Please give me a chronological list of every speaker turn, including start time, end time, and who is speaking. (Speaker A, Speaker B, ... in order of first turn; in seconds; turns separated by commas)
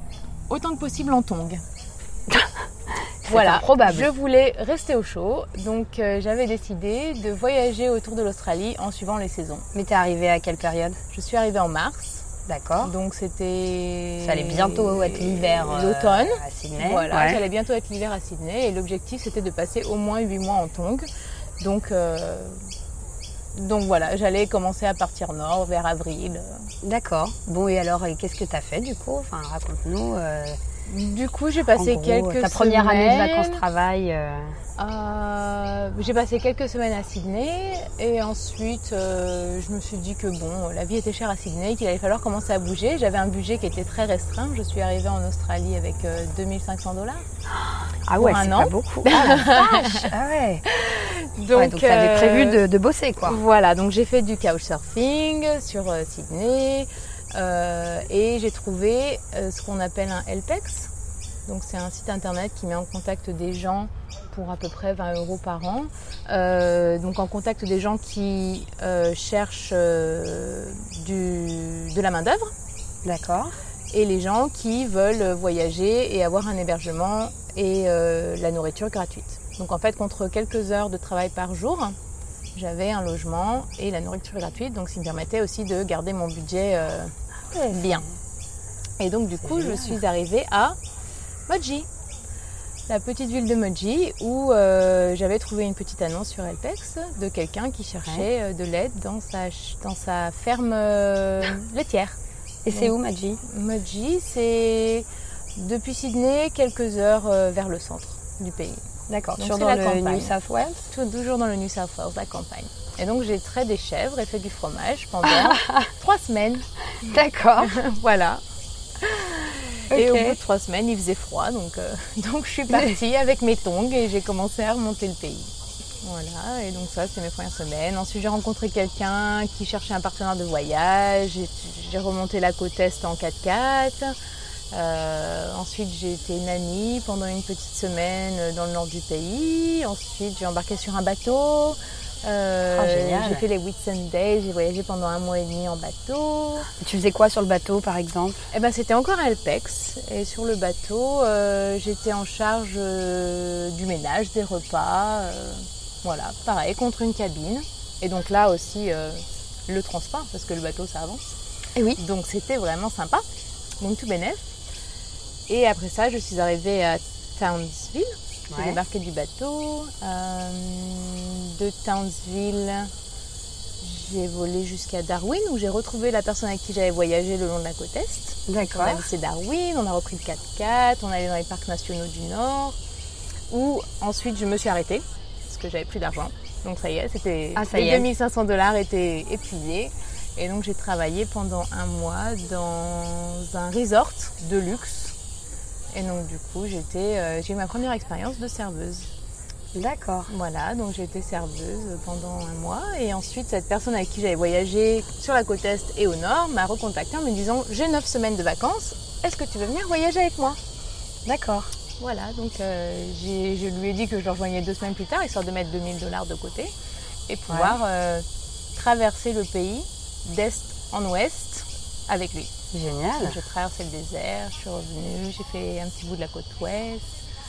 Speaker A: 0.5-1.6, Speaker B: 2.3-2.6, Speaker B: 3.2-4.1, Speaker A: 3.3-9.7, Speaker B: 9.8-11.0, Speaker A: 11.1-12.3, Speaker B: 12.5-12.9, Speaker A: 12.8-21.1, Speaker B: 14.2-17.4, Speaker A: 21.6-22.6, Speaker A: 23.6-26.7, Speaker B: 26.8-30.6, Speaker A: 30.9-33.6, Speaker B: 31.8-34.6, Speaker A: 34.8-47.2, Speaker B: 47.5-50.6, Speaker A: 48.2-50.1, Speaker A: 50.7-52.6, Speaker B: 51.5-53.4, Speaker A: 53.3-60.9, Speaker A: 61.5-72.5, Speaker B: 73.0-73.6, Speaker A: 73.9-82.0, Speaker A: 82.5-87.1, Speaker B: 87.5-88.1, Speaker A: 87.7-88.1, Speaker A: 89.0-90.8, Speaker B: 89.5-89.9, Speaker A: 91.5-91.9, Speaker A: 92.9-102.2, Speaker B: 102.7-103.4, Speaker A: 102.8-108.8, Speaker B: 109.1-110.8, Speaker A: 109.4-110.3, Speaker A: 110.9-116.7, Speaker B: 115.3-115.9, Speaker B: 117.0-117.8, Speaker A: 117.6-118.4, Speaker A: 119.0-125.5, Speaker B: 119.9-120.4, Speaker A: 126.0-134.2, Speaker A: 134.7-146.7, Speaker B: 142.7-143.5, Speaker B: 146.8-148.5, Speaker A: 148.5-161.4, Speaker B: 161.8-162.0, Speaker A: 162.0-163.2, Speaker A: 163.8-164.5, Speaker A: 165.5-172.9, Speaker B: 168.5-168.8, Speaker A: 173.8-182.8, Speaker B: 178.5-179.0, Speaker A: 183.5-195.1, Speaker B: 187.6-188.1, Speaker A: 195.9-199.1, Speaker B: 199.8-200.3, Speaker A: 200.3-210.6, Speaker B: 211.3-211.7, Speaker A: 212.0-216.7, Speaker A: 217.3-218.2, Speaker B: 217.5-217.8, Speaker A: 218.8-222.5, Speaker B: 222.7-223.4, Speaker A: 223.2-227.1